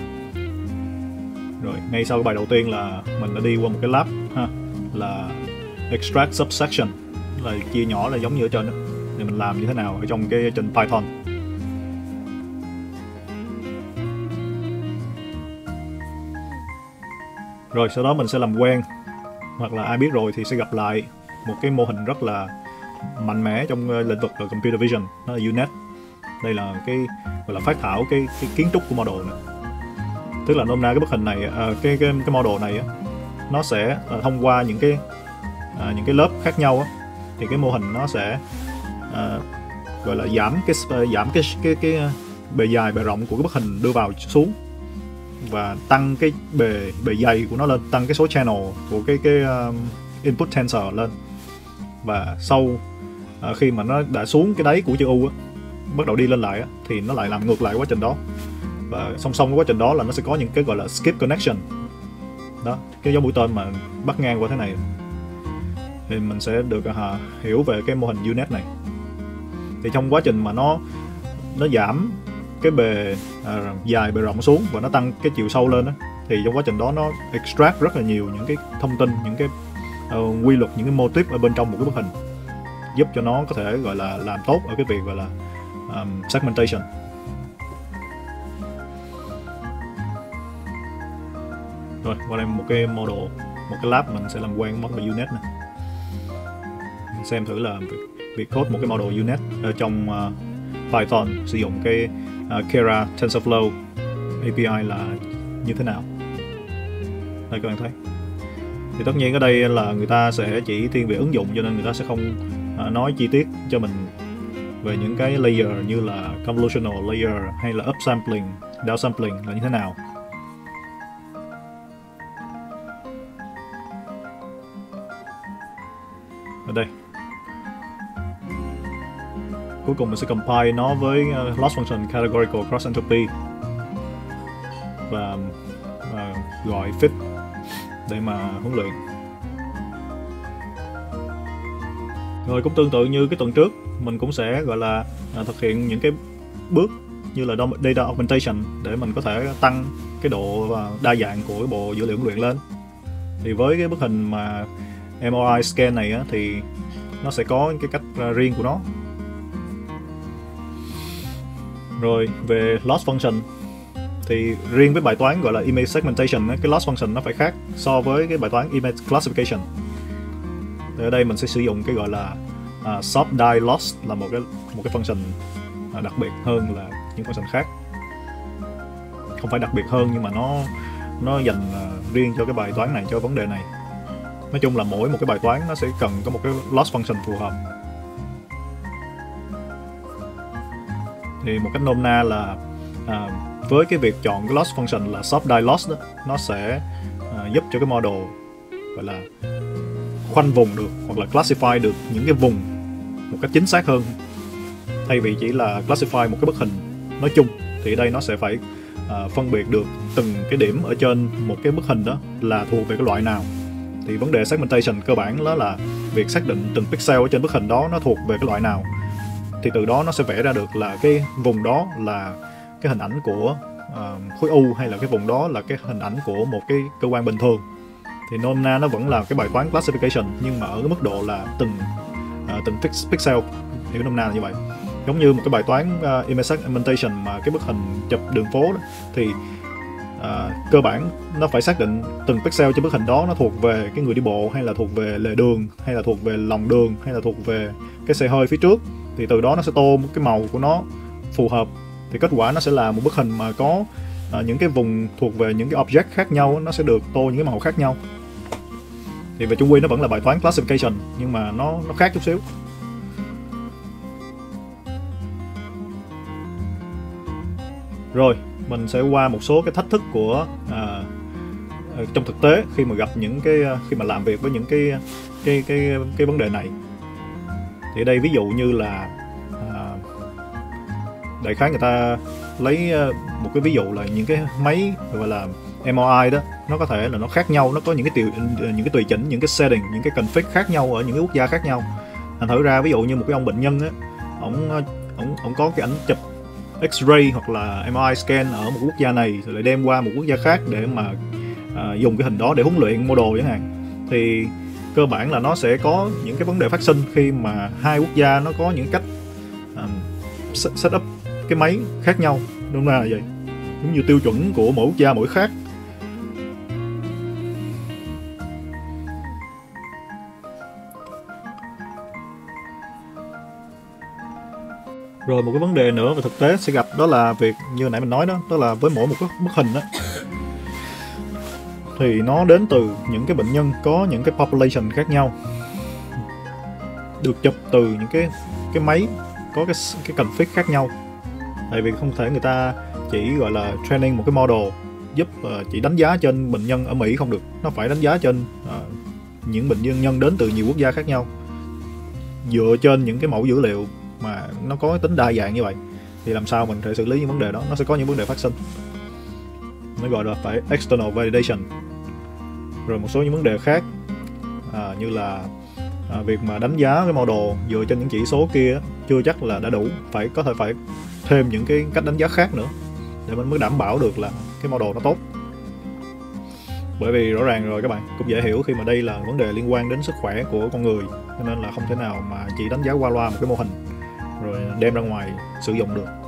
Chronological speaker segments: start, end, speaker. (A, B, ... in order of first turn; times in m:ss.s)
0:01.6-0:11.1 A
0:17.7-0:18.8 A
0:19.6-0:22.5 A
0:23.0-0:25.7 A
0:26.4-0:29.4 A
0:30.4-0:32.9 A
0:33.5-0:35.0 A
0:35.7-0:38.4 A
0:39.1-0:39.4 A
0:40.0-0:44.6 A
0:45.4-0:51.1 A
0:52.0-0:52.8 A
0:53.4-0:55.3 A
0:55.9-0:58.2 A
0:58.9-1:01.6 A
1:02.6-1:04.8 A
1:06.1-1:08.7 A
1:09.8-1:10.8 A
1:11.5-1:19.5 A
1:20.1-1:22.1 A
1:22.9-1:25.3 A
1:25.9-1:26.9 A
1:32.0-1:35.4 A
1:37.1-1:40.4 A
1:40.9-1:43.8 A
1:44.4-1:46.1 A
1:47.5-1:48.0 A
1:49.0-1:54.1 A
1:54.8-2:00.0 A
2:06.6-2:06.9 A
2:09.8-2:13.3 A
2:15.1-2:17.2 A
2:18.1-2:19.0 A
2:22.4-2:32.6 A
2:33.4-2:36.7 A
2:37.2-2:38.9 A
2:42.0-2:43.5 A
2:44.2-2:49.7 A
2:51.0-2:55.4 A
2:55.9-2:57.7 A
2:59.4-3:03.7 A
3:04.5-3:07.6 A
3:11.4-3:18.4 A
3:18.9-3:19.3 A
3:20.3-3:22.7 A
3:23.3-3:24.2 A
3:25.1-3:33.5 A
3:34.0-3:38.9 A
3:39.6-3:47.6 A
3:48.3-3:51.9 A
3:52.5-3:59.4 A
4:00.2-4:18.0 A
4:19.4-4:22.4 A
4:28.1-4:31.1 A
4:31.8-4:36.8 A
4:37.9-4:40.1 A
4:41.4-4:51.9 A
4:52.4-4:56.2 A
4:56.8-5:01.2 A
5:01.7-5:09.0 A
5:09.8-5:13.3 A
5:13.8-5:15.5 A
5:25.3-5:30.0 A
5:32.0-5:35.4 A
5:37.2-5:40.9 A
5:41.7-5:51.3 A
5:52.4-5:58.6 A
6:00.0-6:01.7 A
6:02.9-6:03.9 A
6:04.7-6:05.5 A
6:06.1-6:12.7 A
6:13.3-6:15.2 A
6:17.0-6:23.8 A
6:24.4-6:26.1 A